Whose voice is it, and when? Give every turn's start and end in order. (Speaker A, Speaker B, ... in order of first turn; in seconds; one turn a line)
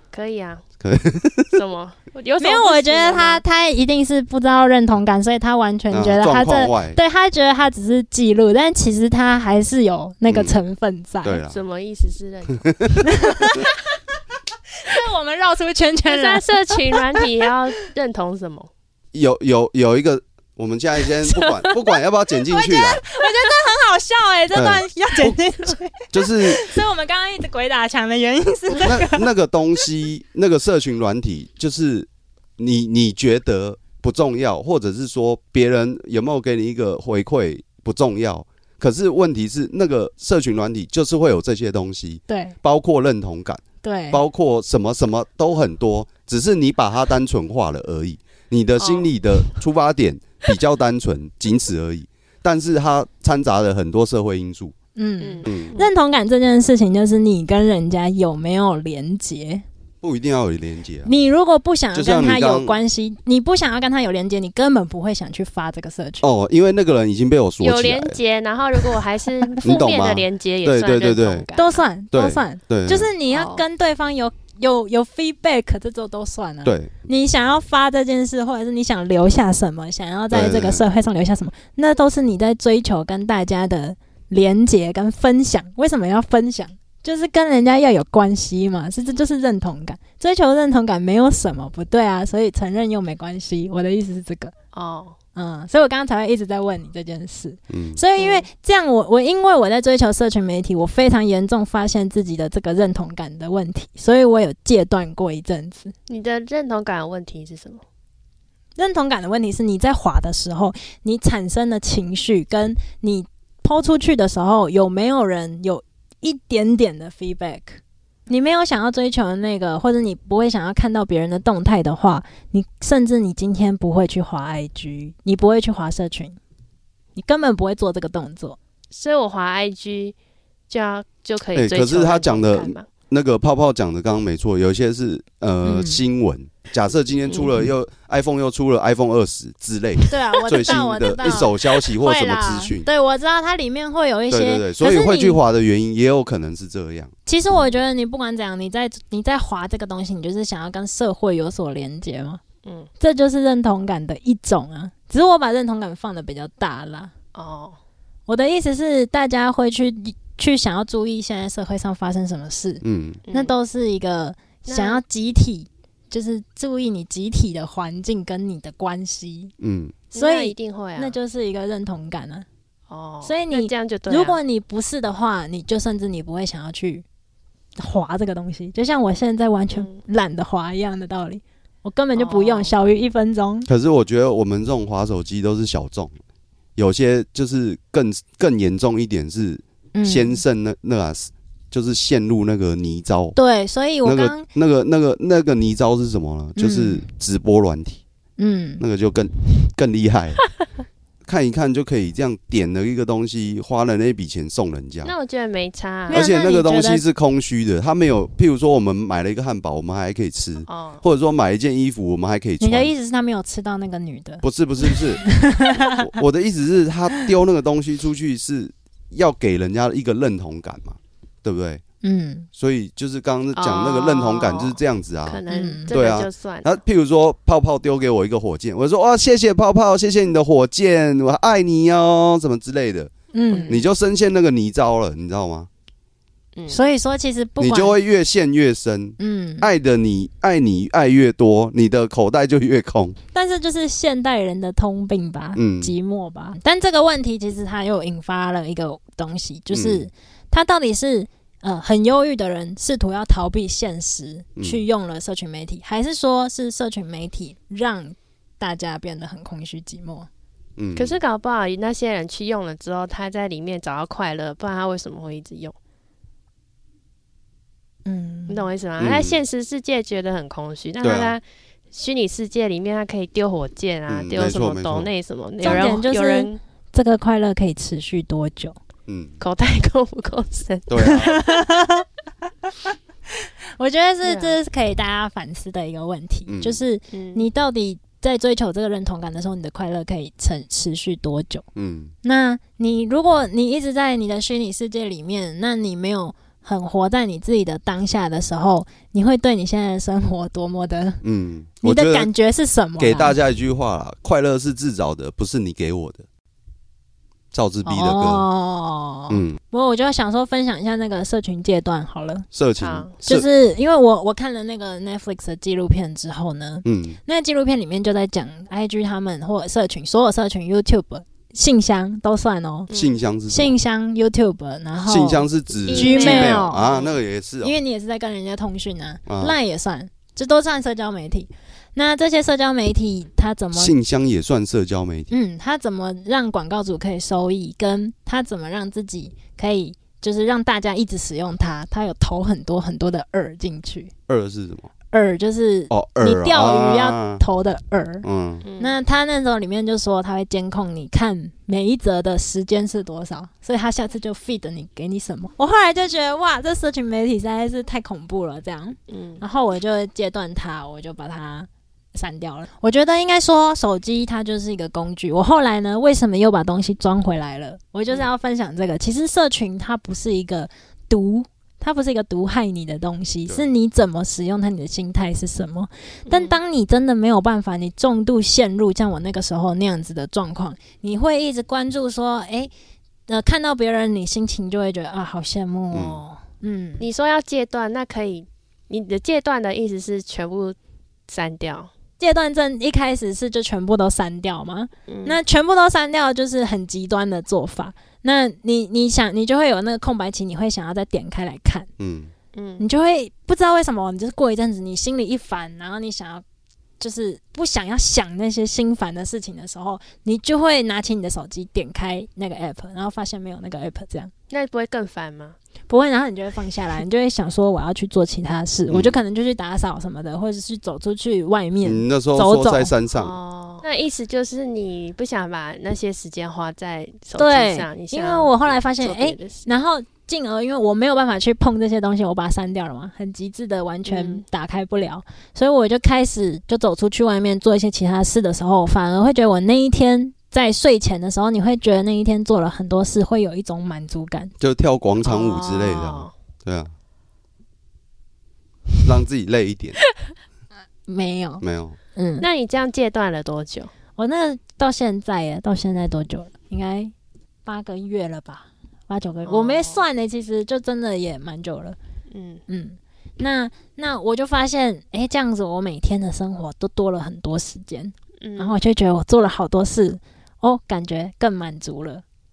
Speaker A: 0.1-0.6
Speaker B: 0.8-1.6
Speaker A: 1.5-3.4
Speaker C: 2.4-11.4
Speaker B: 5.9-7.0
Speaker B: 10.3-10.6
Speaker B: 11.2-11.6
Speaker A: 11.5-12.8
Speaker B: 12.6-13.1
Speaker C: 13.0-13.7
Speaker C: 14.8-17.2
Speaker A: 16.1-18.7
Speaker B: 19.1-23.0
Speaker A: 21.3-21.7
Speaker C: 22.5-29.3
Speaker B: 24.5-25.4
Speaker B: 26.1-26.8
Speaker B: 28.8-54.7
Speaker C: 42.3-42.5
Speaker C: 43.8-44.2
Speaker A: 48.8-49.1
Speaker C: 55.0-59.6
Speaker A: 55.2-55.9
Speaker B: 55.5-55.8
Speaker B: 60.0-61.1
Speaker C: 61.0-66.2
Speaker B: 61.9-62.8
Speaker B: 66.2-68.2
Speaker A: 67.6-71.8
Speaker B: 69.6-71.5
Speaker C: 71.5-94.5
Speaker B: 72.1-73.1
Speaker A: 73.3-73.6
Speaker B: 76.6-76.9
Speaker B: 80.3-80.8
Speaker A: 94.7-95.2
Speaker C: 95.3-105.9
Speaker B: 97.7-98.0
Speaker A: 98.2-98.5
Speaker A: 106.1-107.8
Speaker C: 108.8-126.4
Speaker C: 127.1-128.6
Speaker A: 128.9-130.1
Speaker A: 130.7-132.9
Speaker B: 131.5-142.9
Speaker C: 135.6-136.0
Speaker C: 140.1-145.4
Speaker B: 144.3-147.1
Speaker C: 147.2-152.4
Speaker A: 152.6-152.9
Speaker C: 153.0-157.1
Speaker A: 157.3-157.8
Speaker C: 158.3-169.5
Speaker B: 162.8-163.2
Speaker A: 163.2-163.5
Speaker A: 164.7-165.0
Speaker B: 169.6-170.0
Speaker A: 170.1-171.2
Speaker C: 170.1-172.4
Speaker A: 172.9-174.4
Speaker C: 173.2-177.0
Speaker C: 177.8-183.7
Speaker A: 179.7-180.0
Speaker A: 182.1-182.7
Speaker B: 183.7-186.1
Speaker B: 186.8-193.3
Speaker C: 189.9-190.4
Speaker C: 193.3-194.5
Speaker B: 194.0-198.0
Speaker C: 196.6-197.1
Speaker C: 198.4-198.8
Speaker B: 198.8-200.4
Speaker B: 201.2-205.1
Speaker A: 205.0-206.3
Speaker C: 206.1-207.0
Speaker B: 206.1-212.9
Speaker A: 210.7-211.0
Speaker C: 212.6-216.0
Speaker B: 214.4-215.2
Speaker B: 215.9-221.8
Speaker C: 222.0-222.5
Speaker B: 222.5-233.1
Speaker A: 223.6-226.8
Speaker C: 225.5-225.9
Speaker C: 233.3-233.8
Speaker A: 233.5-233.8
Speaker B: 233.7-235.7
Speaker A: 236.5-236.8
Speaker C: 236.7-237.9
Speaker B: 237.6-243.2
Speaker C: 239.2-239.7
Speaker C: 243.3-260.3
Speaker B: 245.5-245.9
Speaker B: 249.7-250.1
Speaker B: 254.6-254.8
Speaker B: 260.8-261.2
Speaker A: 260.9-265.8
Speaker C: 268.1-268.7
Speaker A: 268.5-276.6
Speaker B: 269.0-269.4
Speaker B: 271.0-271.4
Speaker B: 274.1-275.1
Speaker C: 275.6-278.8
Speaker B: 279.1-279.3
Speaker A: 279.4-281.1
Speaker B: 280.9-281.5
Speaker C: 281.0-282.0
Speaker C: 283.8-291.6
Speaker A: 284.2-284.6
Speaker B: 286.5-286.8
Speaker A: 287.1-287.4
Speaker B: 291.7-292.1
Speaker C: 292.2-301.2
Speaker B: 301.2-302.3
Speaker C: 301.8-303.4
Speaker B: 303.0-306.2
Speaker B: 307.5-308.5
Speaker C: 307.8-312.4
Speaker B: 309.3-309.6
Speaker B: 312.5-313.4
Speaker A: 312.8-313.1
Speaker C: 313.2-322.9
Speaker B: 316.8-317.2
Speaker A: 322.9-323.2
Speaker B: 322.9-323.7
Speaker C: 323.5-326.9
Speaker B: 325.0-327.8
Speaker A: 325.9-327.2
Speaker C: 327.6-333.9
Speaker B: 329.3-329.6
Speaker B: 333.7-335.3
Speaker C: 335.3-344.1
Speaker B: 344.3-344.9
Speaker C: 345.1-348.2
Speaker B: 345.9-347.4
Speaker B: 348.2-348.6
Speaker A: 348.6-348.9
Speaker C: 348.8-382.7
Speaker A: 359.1-359.4
Speaker A: 376.3-376.6
Speaker C: 383.3-387.1
Speaker B: 385.9-386.2
Speaker A: 387.0-390.8
Speaker A: 391.3-391.9
Speaker C: 392.2-401.9
Speaker A: 395.1-395.4
Speaker B: 402.0-402.3
Speaker A: 402.5-402.9
Speaker C: 402.8-406.4
Speaker C: 407.0-414.3
Speaker A: 414.5-415.6
Speaker C: 415.9-422.9
Speaker B: 418.9-419.2
Speaker B: 421.8-423.4
Speaker A: 423.1-429.7
Speaker C: 427.3-444.5
Speaker A: 434.1-434.4
Speaker B: 444.6-446.9
Speaker A: 445.2-446.3
Speaker B: 449.0-450.0
Speaker C: 451.1-451.6
Speaker B: 451.6-452.0
Speaker C: 452.1-452.5
Speaker A: 452.4-453.9
Speaker C: 454.2-457.1
Speaker C: 457.6-462.0
Speaker A: 459.4-460.0
Speaker A: 462.3-462.6
Speaker C: 462.7-472.2
Speaker A: 468.4-468.8